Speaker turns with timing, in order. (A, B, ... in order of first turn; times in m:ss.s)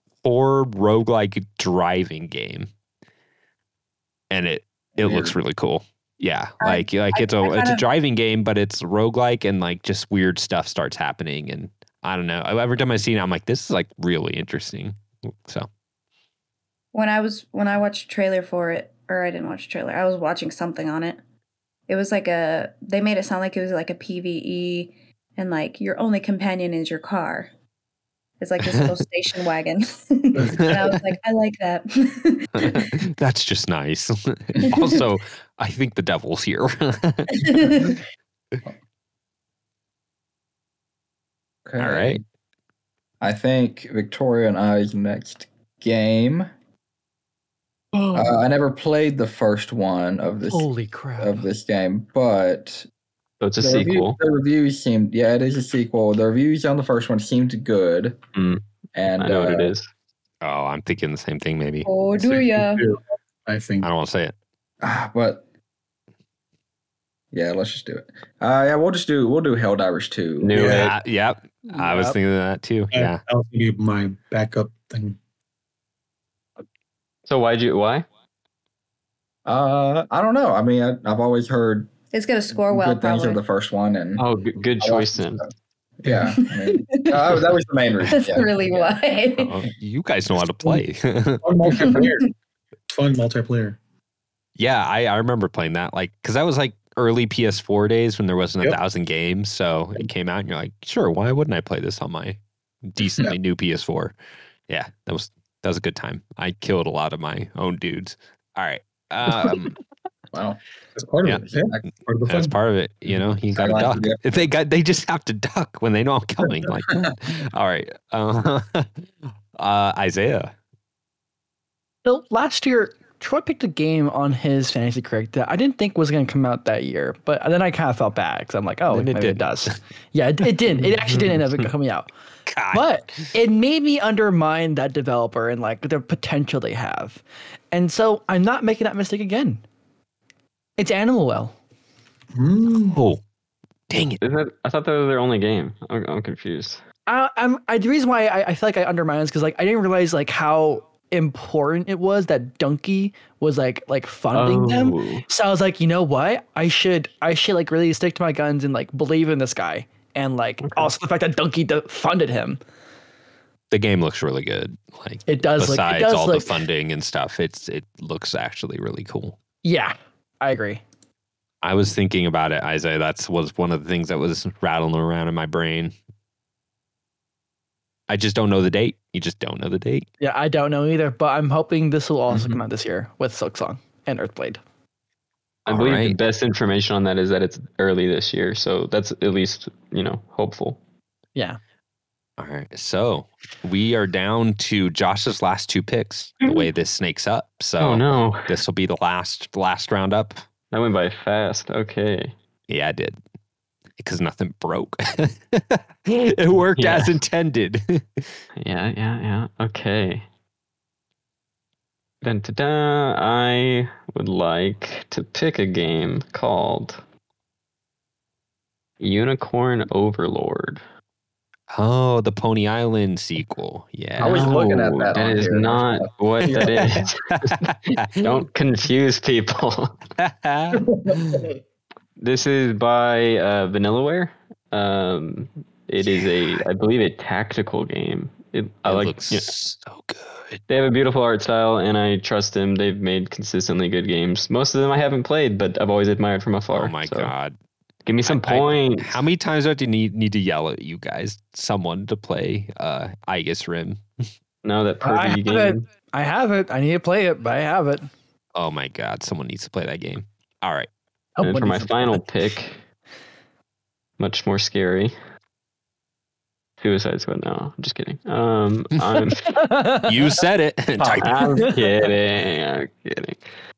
0:00.2-0:02.7 A
0:04.3-0:15.7 A
0:05.0-0:05.4 B
0:06.6-0:07.8 C
0:16.9-0:21.2 C
0:21.9-0:27.5 C
0:28.4-0:33.0 C
0:28.6-0:29.0 A
0:30.4-0:30.6 D
0:30.4-0:31.1 A
0:32.6-0:37.8 A
0:34.6-0:35.0 C
0:37.3-0:38.0 C
0:41.6-0:42.2 B
0:41.8-0:42.2 A
0:43.2-0:46.5 B
0:47.9-0:48.4 E
0:48.1-0:52.9 B
0:50.5-0:51.4 E
0:53.4-0:54.2 F
0:53.6-0:58.2 B
0:58.3-0:58.6 F
0:58.9-0:59.7 B
0:59.2-0:59.9 F
1:00.4-1:01.9 A
1:01.8-1:02.8 C
1:02.2-1:03.9 D
1:03.8-1:04.3 A
1:04.8-1:05.4 B
1:07.3-1:10.5 B
1:10.4-1:10.9 F
1:10.5-1:10.9 D
1:10.6-1:13.2 A
1:11.7-1:12.2 E
1:12.9-1:15.2 D
1:17.3-1:18.0 F
1:19.4-1:21.9 B
1:22.1-1:23.4 C
1:22.6-1:24.2 B
1:24.2-1:25.4 F
1:24.8-1:25.5 B
1:26.0-1:28.8 B
1:26.4-1:27.3 C
1:28.1-1:29.6 C
1:29.4-1:32.0 A
1:31.4-1:32.3 D
1:32.9-1:33.8 D
1:34.6-1:44.1 A
1:44.7-1:49.8 A
1:50.3-1:50.6 B
1:51.0-1:52.5 D
1:51.4-1:51.9 B
1:52.3-2:00.5 A
1:53.5-1:54.2 B
2:02.0-2:12.1 E
2:08.9-2:09.7 A
2:11.0-2:11.6 F
2:12.5-2:12.9 A
2:12.7-2:19.6 E
2:20.8-2:21.5 E
2:22.3-2:23.0 D
2:22.9-2:23.2 A
2:23.9-2:24.2 A
2:24.2-2:26.8 F
2:27.1-2:42.6 E
2:34.3-2:35.2 F
2:43.7-2:49.4 A
2:45.3-2:46.6 E
2:49.6-2:50.8 E
2:51.6-2:55.9 A
2:58.1-3:00.1 A
3:00.2-3:04.6 E
3:02.3-3:02.6 F
3:05.6-3:10.8 F
3:05.7-3:06.2 A
3:12.4-3:20.4 A
3:17.8-3:18.5 F
3:20.7-3:22.3 F
3:22.7-3:23.2 A
3:24.0-3:28.4 A
3:26.8-3:27.1 F
3:28.6-3:30.2 F
3:32.2-3:37.0 F
3:39.0-3:40.8 F
3:41.7-3:44.6 A
3:44.2-3:50.0 F
3:44.2-3:47.0 B
3:46.6-3:48.4 A
3:50.2-3:51.5 A
3:50.8-3:51.4 D
3:52.2-3:59.5 F
3:56.2-3:56.6 A
3:58.8-4:00.6 A
4:00.7-4:07.3 F
4:06.7-4:07.6 A
4:08.0-4:09.2 F
4:08.2-4:14.0 A
4:14.6-4:15.8 F
4:15.0-4:18.1 E
4:18.5-4:20.9 A
4:21.4-4:22.2 E
4:21.4-4:22.8 F
4:24.2-4:25.1 F
4:26.8-4:29.5 F
4:29.5-4:30.2 E
4:30.0-4:31.6 A
4:31.1-4:33.4 F